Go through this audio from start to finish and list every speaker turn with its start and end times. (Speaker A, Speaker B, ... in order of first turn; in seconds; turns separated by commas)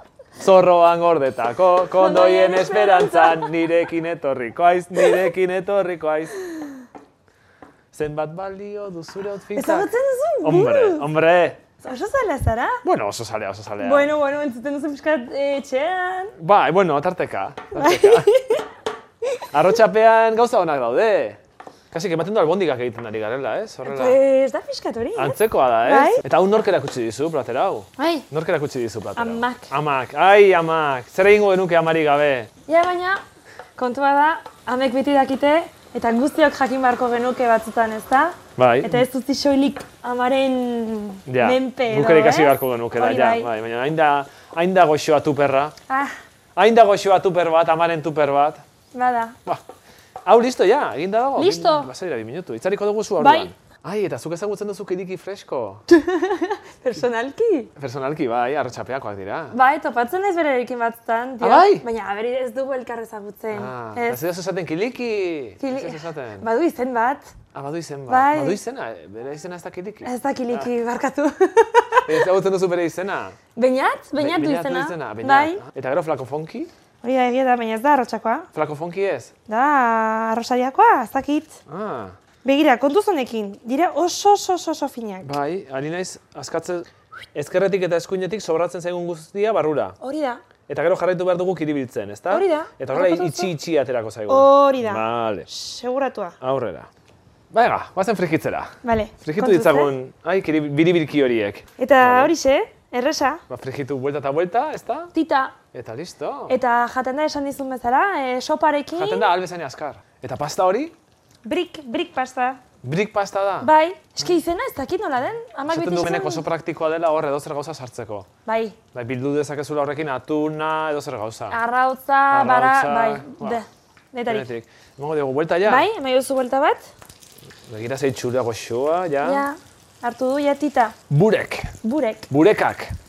Speaker A: 0.4-6.4, Speaker B: 1.9-3.6, Speaker B: 5.0-5.2, Speaker B: 6.4-6.7, Speaker A: 7.9-11.6, Speaker B: 9.6-11.1, Speaker B: 11.8-12.8, Speaker A: 12.8-14.1, Speaker B: 13.8-16.4, Speaker A: 16.4-18.4, Speaker B: 17.8-18.7, Speaker A: 19.5-21.4, Speaker A: 21.9-24.2, Speaker B: 23.8-26.2, Speaker A: 25.2-32.5, Speaker B: 28.0-28.3, Speaker B: 29.2-29.7, Speaker B: 32.7-33.2, Speaker B: 33.8-43.5, Speaker A: 38.6-39.0, Speaker A: 41.3-45.7, Speaker B: 45.9-46.1, Speaker A: 46.6-48.6, Speaker B: 48.9-49.4, Speaker A: 50.3-55.8, Speaker B: 51.4-51.9, Speaker B: 53.2-53.5, Speaker B: 55.9-57.7, Speaker A: 57.8-59.6, Speaker B: 59.5-64.2, Speaker A: 61.4-61.9, Speaker A: 63.5-66.5, Speaker B: 65.6-67.3, Speaker A: 67.5-70.7, Speaker B: 68.1-68.6, Speaker B: 70.0-72.3, Speaker A: 72.1-73.4, Speaker B: 73.6-75.6, Speaker A: 74.2-76.7, Speaker B: 77.0-78.5, Speaker A: 78.5-79.3, Speaker B: 79.5-81.6, Speaker A: 81.7-82.2, Speaker B: 82.4-85.3, Speaker A: 85.2-90.0, Speaker B: 90.0-90.4, Speaker A: 90.7-95.5, Speaker B: 92.3-93.5, Speaker B: 94.3-96.4, Speaker A: 96.4-96.9, Speaker A: 97.5-102.3, Speaker B: 98.8-99.9, Speaker B: 101.8-103.4, Speaker A: 103.5-105.1, Speaker B: 105.1-105.6, Speaker A: 105.7-106.6, Speaker B: 106.5-109.3, Speaker A: 109.0-111.0, Speaker B: 111.5-112.6, Speaker A: 112.8-113.7, Speaker B: 113.6-116.5, Speaker A: 115.7-118.3, Speaker B: 118.5-118.8, Speaker A: 118.9-121.6, Speaker B: 121.5-124.5, Speaker A: 122.3-123.6, Speaker A: 124.3-125.9, Speaker B: 125.7-126.9, Speaker A: 127.7-129.5, Speaker B: 129.2-130.9, Speaker A: 131.1-131.8, Speaker B: 131.8-132.3, Speaker A: 132.3-132.9